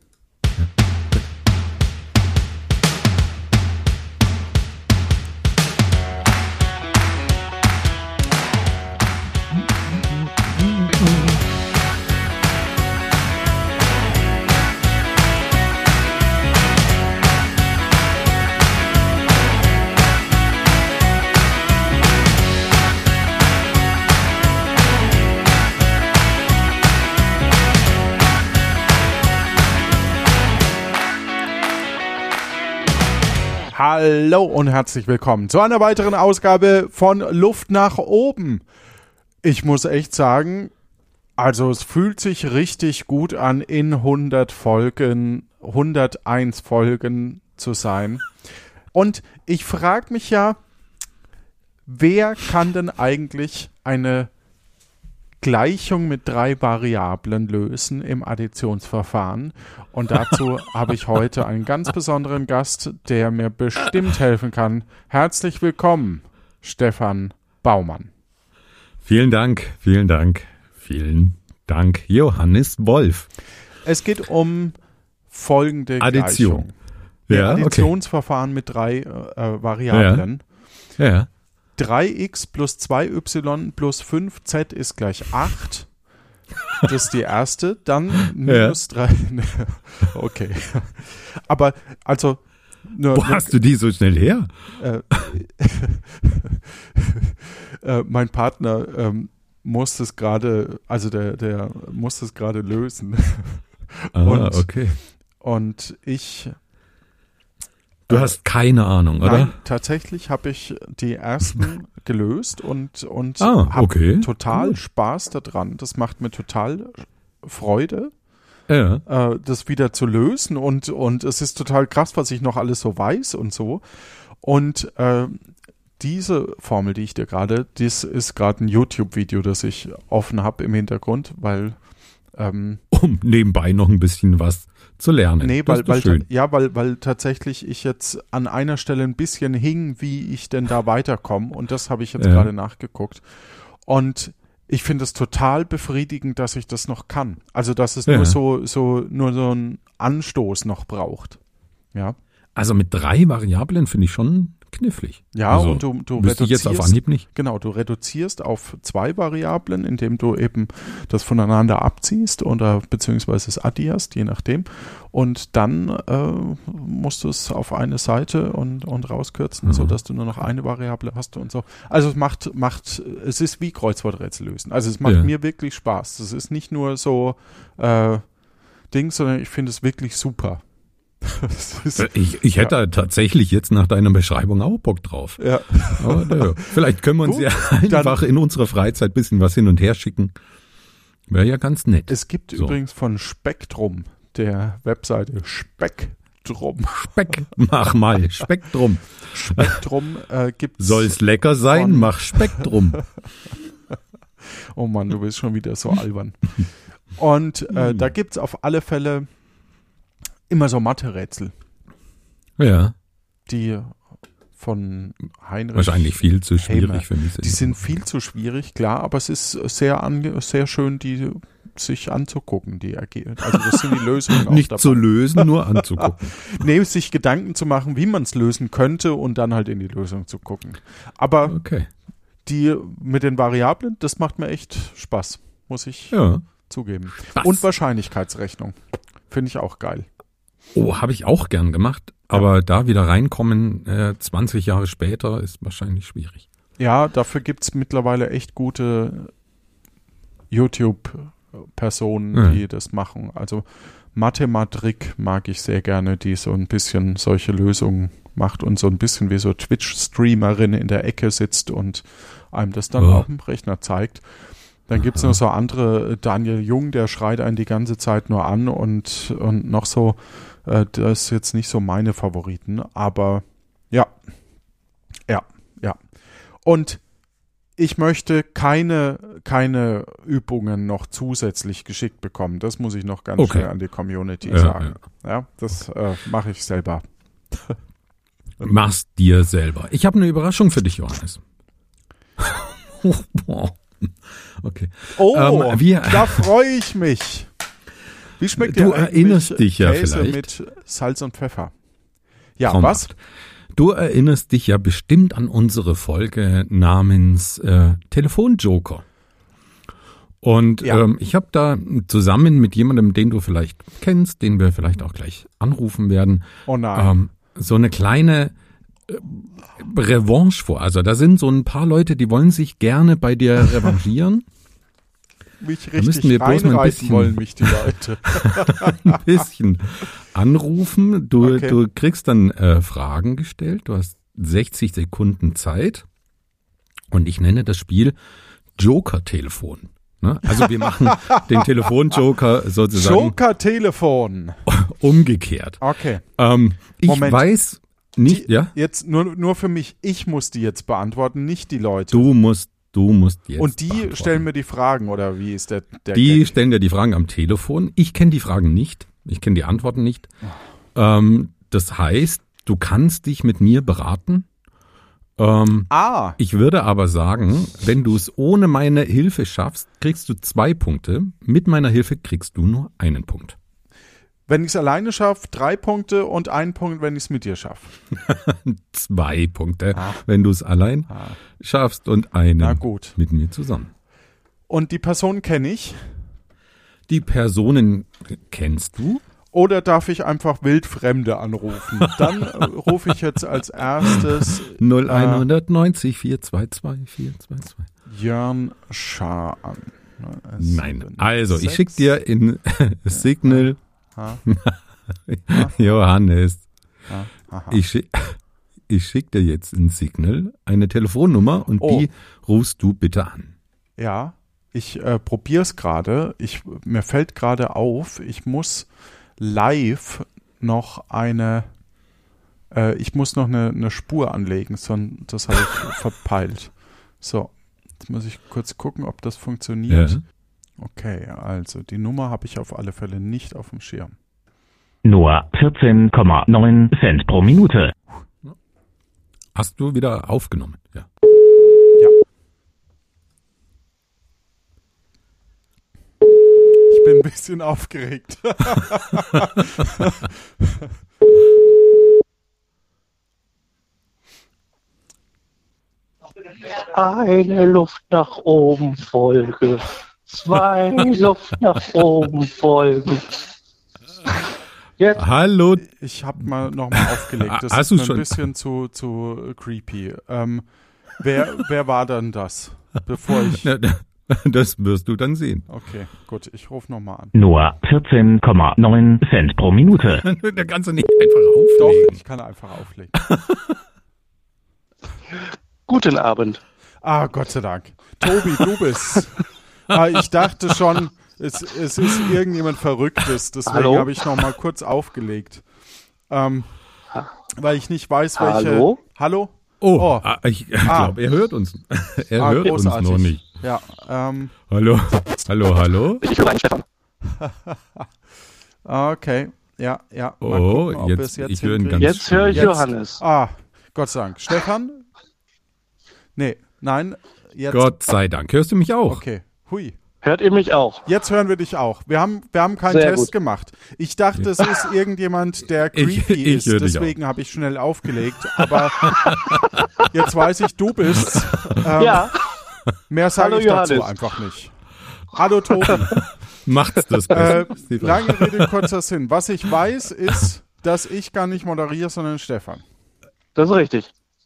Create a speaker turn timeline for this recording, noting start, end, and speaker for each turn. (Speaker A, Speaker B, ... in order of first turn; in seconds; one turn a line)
Speaker A: 9.5-11.4
Speaker B: 33.7-38.6
Speaker B: 39.4-40.7
Speaker B: 41.4-48.3
Speaker B: 48.9-50.6
Speaker B: 51.9-54.3
Speaker B: 55.4-68.1
Speaker A: 69.0-73.3
Speaker B: 73.8-74.8
Speaker B: 75.3-76.7
Speaker A: 76.0-76.7
Speaker A: 77.3-77.9
Speaker B: 77.3-80.4
Speaker A: 79.9-80.2
Speaker A: 81.0-81.3
Speaker B: 81.8-85.9
Speaker B: 86.8-93.6
Speaker A: 88.4-88.8
Speaker A: 93.1-94.5
Speaker B: 94.8-104.8
Speaker A: 104.2-105.0
Speaker B: 105.4-106.6
Speaker B: 108.1-108.4
Speaker A: 108.1-109.5
Speaker B: 109.2-118.1
Speaker A: 113.4-114.8
Speaker A: 118.7-119.0
Speaker B: 119.1-123.8
Speaker B: 124.4-125.5
Speaker B: 126.0-131.8
Speaker B: 132.3-132.8
Speaker A: 132.9-136.3
Speaker B: 135.4-143.2
Speaker A: 142.2-142.5
Speaker B: 143.8-151.4
Speaker A: 148.1-148.4
Speaker A: 152.6-157.3
Speaker B: 155.3-178.3
Speaker A: 169.6-169.9
Speaker A: 175.1-175.3
Speaker B: 178.9-180.6
Speaker B: 181.2-182.7
Speaker A: 182.0-190.3
Speaker B: 185.4-188.2
Speaker A: 191.3-192.8
Speaker B: 192.1-197.4
Speaker A: 196.9-199.8
Speaker B: 199.3-202.7
Speaker A: 200.8-203.1
Speaker B: 204.8-206.5
Speaker B: 207.2-209.3
Speaker A: 207.7-208.1
Speaker B: 210.5-211.5
Speaker A: 212.6-212.9
Speaker B: 213.5-214.0
Speaker B: 214.6-231.6
Speaker A: 215.8-217.8
Speaker A: 223.5-223.8
Speaker A: 224.3-226.5
Speaker A: 231.5-231.9
Speaker B: 232.5-238.8
Speaker A: 236.1-236.4
Speaker A: 237.3-237.6
Speaker B: 239.3-240.1
Speaker A: 240.7-246.4
Speaker B: 246.8-249.3
Speaker B: 250.5-264.2
Speaker A: 252.3-252.6
Speaker A: 263.0-263.2
Speaker B: 264.9-274.1
Speaker A: 265.0-265.4
Speaker B: 275.3-276.0
Speaker B: 276.6-277.0
Speaker B: 277.8-287.8
Speaker A: 283.4-283.7
Speaker A: 284.5-284.9
Speaker A: 288.6-291.4
Speaker A: 292.4-294.1
Speaker A: 294.6-296.5
Speaker B: 295.1-297.5
Speaker B: 298.4-301.7
Speaker A: 298.6-300.5
Speaker B: 302.6-303.1
Speaker A: 302.7-303.2
Speaker A: 303.7-309.0
Speaker A: 310.4-318.5
Speaker B: 316.7-317.2
Speaker A: 319.1-324.4
Speaker B: 325.6-329.2
Speaker A: 326.0-327.8
Speaker A: 328.3-336.1
Speaker B: 331.4-331.8
Speaker A: 337.1-338.1
Speaker A: 338.8-343.4
Speaker B: 340.8-341.4
Speaker B: 342.9-344.6
Speaker A: 344.7-345.8
Speaker B: 345.8-346.2
Speaker A: 346.4-348.7
Speaker B: 347.0-347.5
Speaker B: 348.3-352.3
Speaker A: 352.1-354.5
Speaker B: 353.6-356.5
Speaker A: 356.1-360.3
Speaker A: 361.0-364.5
Speaker A: 365.4-373.6
Speaker B: 365.9-366.4
Speaker B: 374.5-377.9
Speaker A: 378.2-383.9
Speaker B: 379.9-380.2
Speaker B: 381.1-381.4
Speaker B: 382.6-383.2
Speaker B: 384.7-386.1
Speaker A: 387.1-389.2
Speaker B: 389.5-395.5
Speaker A: 392.0-392.9
Speaker A: 394.0-397.9
Speaker B: 398.1-402.1
Speaker A: 400.6-403.8
Speaker B: 403.1-404.4
Speaker A: 404.5-406.6
Speaker B: 407.1-407.8
Speaker A: 407.7-408.4
Speaker A: 408.9-413.5
Speaker B: 411.8-412.1
Speaker B: 414.0-421.7
Speaker B: 422.7-430.2
Speaker A: 429.9-430.2
Speaker B: 430.8-434.1
Speaker C: 435.0-437.9
Speaker A: 439.6-441.1
Speaker B: 446.9-450.3
Speaker D: 456.4-463.3
Speaker A: 465.2-465.9
Speaker B: 465.8-473.7
Speaker A: 466.9-468.4
Speaker A: 473.6-475.7
Speaker B: 475.7-477.3
Speaker C: 477.3-480.2
Speaker A: 480.2-482.2
Speaker B: 481.8-483.1
Speaker A: 483.2-483.8
Speaker D: 485.9-486.6
Speaker B: 487.0-495.6
Speaker D: 493.7-494.1
Speaker B: 496.3-496.7
Speaker B: 497.6-500.3
Speaker D: 498.4-499.0
Speaker A: 499.8-503.4
Speaker B: 500.8-501.2
Speaker B: 502.4-504.5
Speaker A: 504.7-506.2
Speaker D: 506.2-506.9
Speaker B: 507.4-508.0
Speaker B: 508.9-515.0
Speaker A: 510.4-512.9
Speaker D: 512.0-513.2
Speaker B: 516.4-517.9
Speaker A: 517.7-519.2
Speaker B: 519.1-520.0
Speaker D: 520.2-521.0
Speaker B: 521.1-529.2
Speaker D: 522.9-523.3
Speaker A: 525.9-527.2
Speaker A: 529.0-530.0
Speaker B: 530.1-532.3
Speaker D: 532.0-532.4
Speaker B: 533.1-534.7
Speaker D: 533.4-534.1
Speaker B: 535.3-536.1
Speaker A: 536.0-538.7
Speaker B: 537.3-542.8
Speaker D: 543.6-544.1